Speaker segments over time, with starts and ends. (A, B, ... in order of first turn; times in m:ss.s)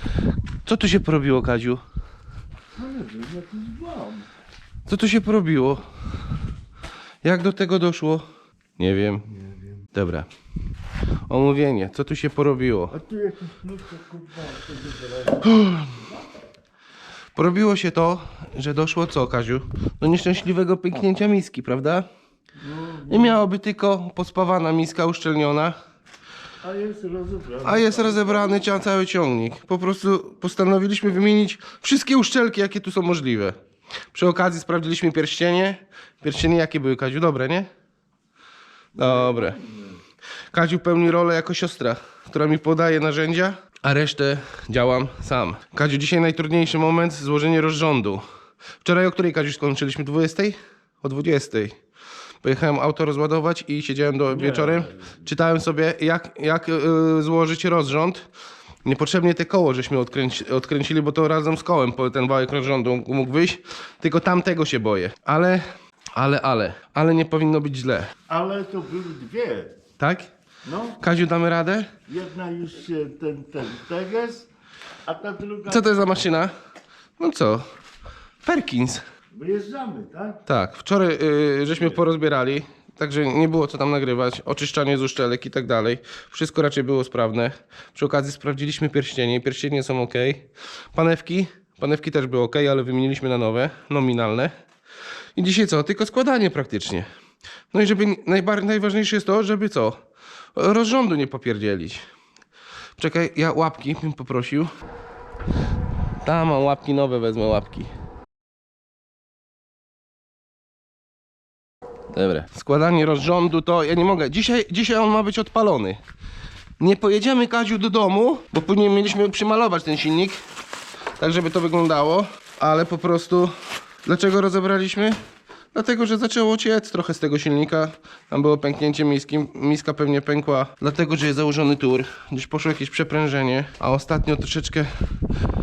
0:00.7-0:01.8 A
0:02.8-0:04.3 B
0:04.9-0:05.8 A
0:07.2-0:08.2 A
0:08.8-0:09.3 A
0:09.9-0:10.3 A
0:11.3-0:13.0 A
0:12.9-0:15.9 B
0:17.4-0:22.1 A
0:22.6-0:23.4 B
0:23.1-0:25.8 A
0:26.6-0:28.6 B
0:27.6-0:33.6 A
0:34.1-0:37.7 A
0:39.0-0:40.0 B
0:39.0-0:39.6 A
0:40.5-0:48.2 A
0:48.8-0:51.8 A
0:52.4-0:58.3 A
0:54.3-0:55.1 B
0:58.8-1:05.6 A
1:06.2-1:08.1 A
1:08.3-1:09.8 B
1:10.0-1:10.3 A
1:10.6-1:11.0 B
1:11.0-1:11.9 A
1:12.1-1:14.5 B
1:15.1-1:16.0 B
1:15.7-1:16.5 A
1:17.2-1:17.6 A
1:18.4-1:19.0 A
1:19.3-1:20.4 B
1:20.5-1:34.5 A
1:35.4-1:37.1 A
1:37.7-1:40.0 A
1:40.6-1:42.0 A
1:43.0-1:44.7 A
1:46.2-1:47.9 A
1:52.1-1:56.0 A
1:56.8-2:00.4 A
2:01.2-2:03.5 A
2:04.0-2:05.2 A
2:05.7-2:14.9 A